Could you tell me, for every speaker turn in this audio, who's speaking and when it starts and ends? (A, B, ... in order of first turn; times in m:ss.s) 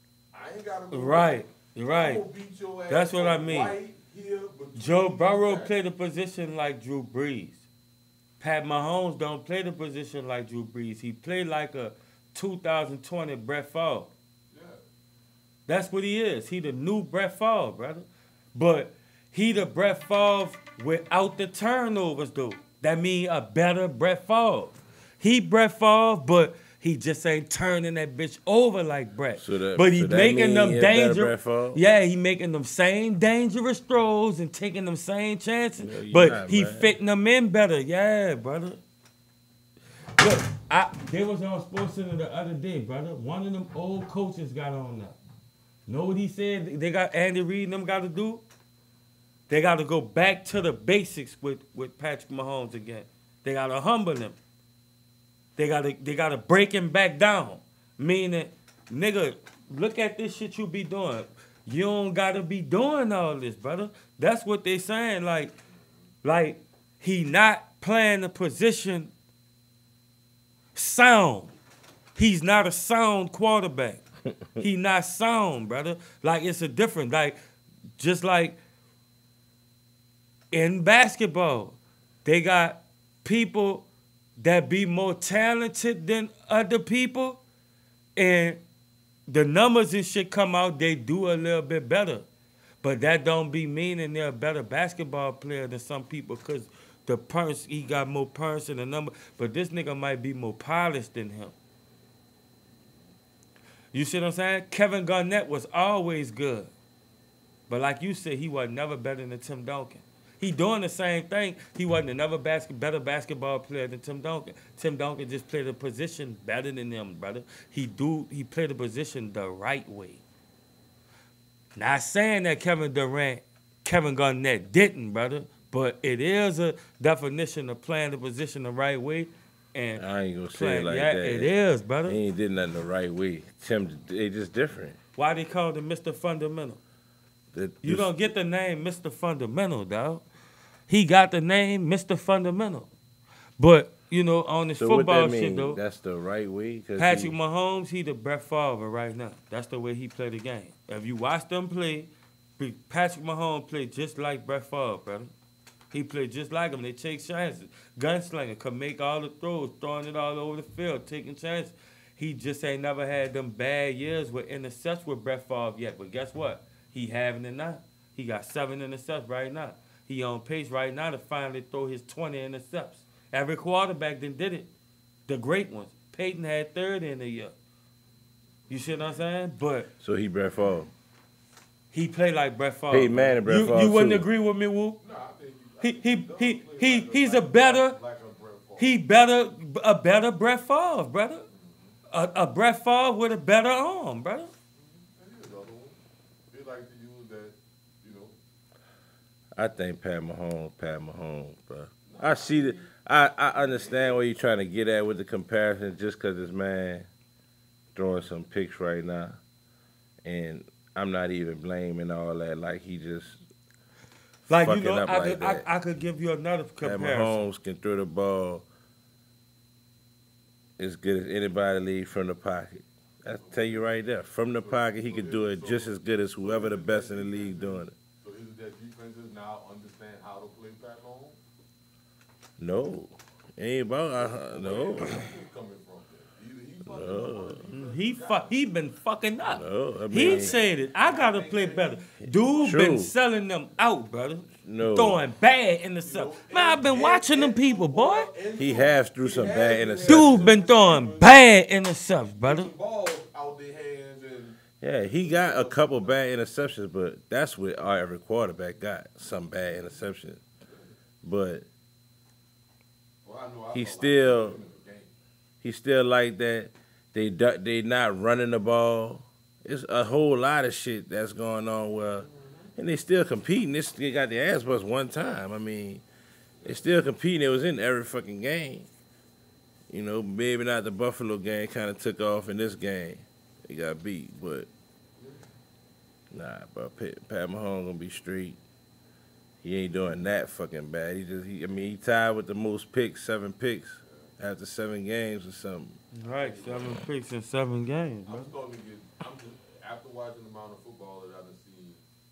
0:00.3-0:05.8 A
0:00.9-0:02.2 B
0:02.9-0:03.8 B
0:04.8-0:07.6 B
0:08.4-0:14.1 B
0:14.5-0:14.8 A
0:15.7-0:38.8 B
0:29.4-0:31.8 C
0:35.8-0:36.9 C
0:40.2-0:45.2 B
0:45.9-0:48.4 B
0:49.5-0:54.4 B
0:55.6-1:05.5 B
1:06.2-1:09.1 B
1:10.7-1:11.5 B
1:12.1-1:14.0 B
1:14.6-1:17.4 B
1:18.0-1:18.6 B
1:20.5-1:23.8 B
1:24.4-1:27.4 B
1:28.2-1:28.6 B
1:29.3-1:32.2 B
1:32.8-1:41.5 B
1:43.9-1:46.7 B
1:47.7-2:00.2 B
2:01.8-2:12.2 B
2:10.0-2:11.5 C
2:12.0-2:15.0 C
2:15.2-2:16.8 B
2:17.5-2:18.1 C
2:17.8-2:20.2 B
2:20.9-2:22.9 B
2:23.6-2:25.8 B
2:24.8-2:27.3 C
2:27.0-2:35.3 B
2:35.9-2:54.7 B
2:55.3-2:57.5 B
2:58.7-2:59.9 B
3:00.0-3:00.9 C
3:01.9-3:05.0 B
3:02.9-3:04.3 C
3:05.0-3:08.9 A
3:05.8-3:08.0 B
3:08.8-3:11.4 B
3:11.5-3:11.9 A
3:12.1-3:14.5 B
3:14.8-3:16.0 A
3:16.5-3:18.4 A
3:19.6-3:27.1 C
3:22.1-3:22.9 A
3:23.5-3:24.2 A
3:27.9-3:29.4 C
3:30.2-3:33.4 C
3:34.5-3:37.4 B
3:34.6-3:35.6 C
3:36.8-3:38.6 C
3:40.8-3:47.9 C
3:43.2-3:51.4 A
3:52.6-3:55.2 C
3:54.1-3:58.6 A
3:56.8-3:57.6 C
3:57.7-4:08.3 B
3:59.5-4:00.6 C
4:00.1-4:02.0 A
4:02.2-4:03.1 C
4:04.6-4:05.2 C
4:06.0-4:11.4 A
4:08.6-4:10.5 C
4:10.1-4:12.7 B
4:12.4-4:14.6 A
4:14.8-4:20.4 C
4:15.2-4:16.1 A
4:21.2-4:21.6 C
4:23.2-4:25.1 A
4:23.7-4:24.6 C
4:25.6-4:36.0 C
4:32.2-4:32.7 A
4:36.6-4:38.9 C
4:39.9-4:44.7 C
4:45.2-4:45.4 A
4:46.3-4:48.6 C
4:49.6-4:56.0 C
4:56.1-4:58.5 B
4:56.2-4:57.0 A
4:58.3-5:02.0 A